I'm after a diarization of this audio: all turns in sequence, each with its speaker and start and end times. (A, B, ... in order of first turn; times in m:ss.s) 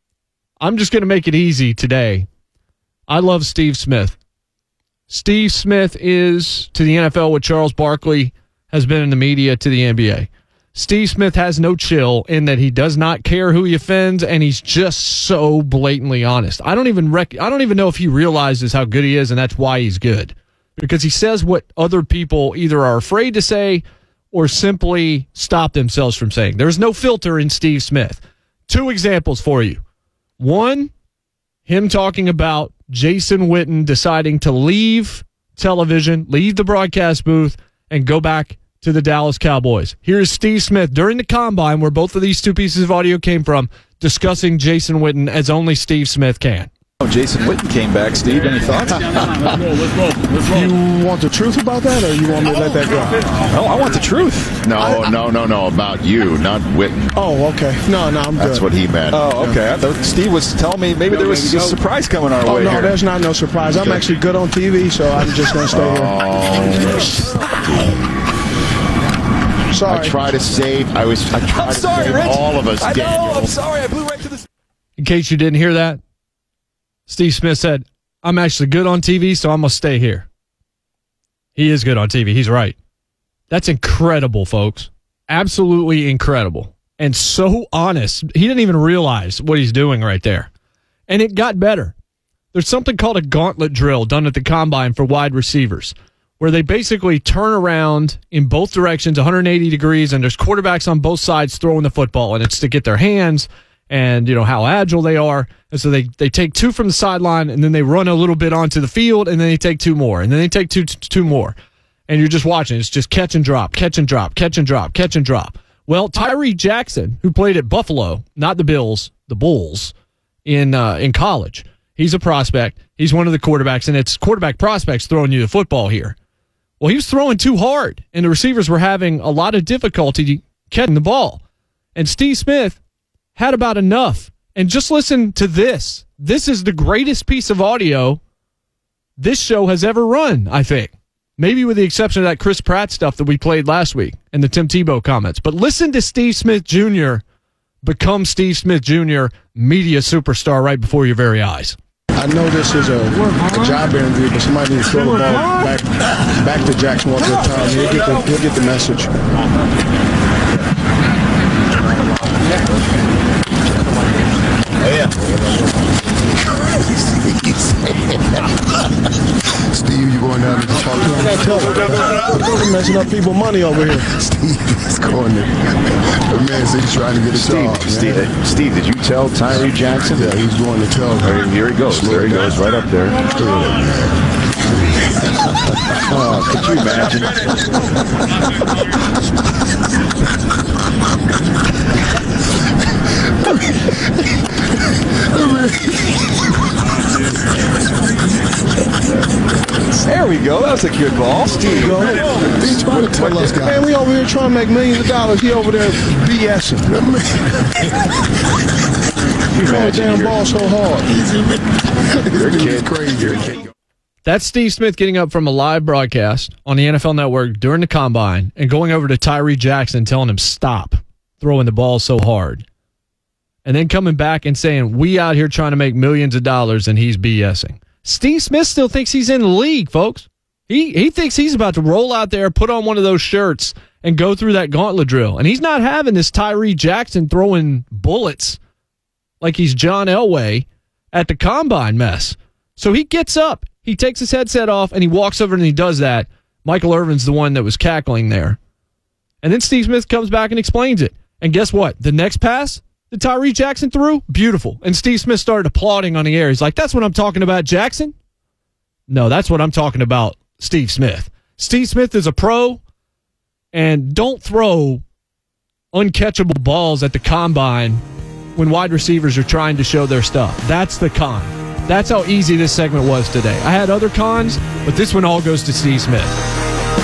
0:00.6-0:02.3 A
0:03.1-0:04.2 A
0:05.1-0:29.8 A
0:30.4-0:30.9 A
0:31.6-0:46.7 A
0:47.0-0:49.6 B
0:50.4-0:53.3 C
0:53.4-0:54.6 B
0:54.6-0:57.1 D
0:54.8-0:55.1 C
0:57.1-0:58.6 C
0:58.4-0:59.2 D
0:59.1-1:03.0 B
1:02.4-1:06.2 C
1:05.7-1:07.2 D
1:09.7-1:10.2 C
1:09.9-1:13.5 D
1:11.3-1:14.4 B
1:15.0-1:16.0 A
1:17.1-1:20.3 A
1:21.6-1:22.8 A
1:23.5-1:30.5 A
1:31.1-1:31.9 A
1:32.5-1:51.6 A
1:52.1-1:59.9 A
2:00.4-2:06.2 A
2:06.8-2:11.4 A
2:11.9-2:12.8 A
2:13.3-2:18.2 A
2:19.2-2:27.2 A
2:27.8-2:31.8 A
2:32.2-2:39.1 C
2:47.0-2:48.0 E
2:49.7-2:51.4 E
2:51.0-2:54.1 C
2:54.1-2:55.7 E
2:56.2-2:58.3 E
2:57.3-3:00.4 D
3:00.1-3:02.6 E
3:01.2-3:03.3 D
3:03.3-3:04.2 E
3:06.1-3:07.5 D
3:13.4-3:13.9 E
3:15.3-3:16.4 E
3:20.0-3:22.3 B
3:21.7-3:27.0 C
3:22.5-3:23.9 E
3:26.9-3:27.9 E
3:29.6-3:31.1 C
3:29.6-3:30.6 D
3:31.1-3:33.6 E
3:32.3-3:33.0 D
3:34.2-3:42.6 A
3:43.6-3:58.6 A
3:59.4-4:08.6 A
4:09.4-4:18.1 A
4:19.1-4:22.8 A
4:23.7-4:25.0 A
4:25.9-4:28.0 A
4:28.6-4:36.3 A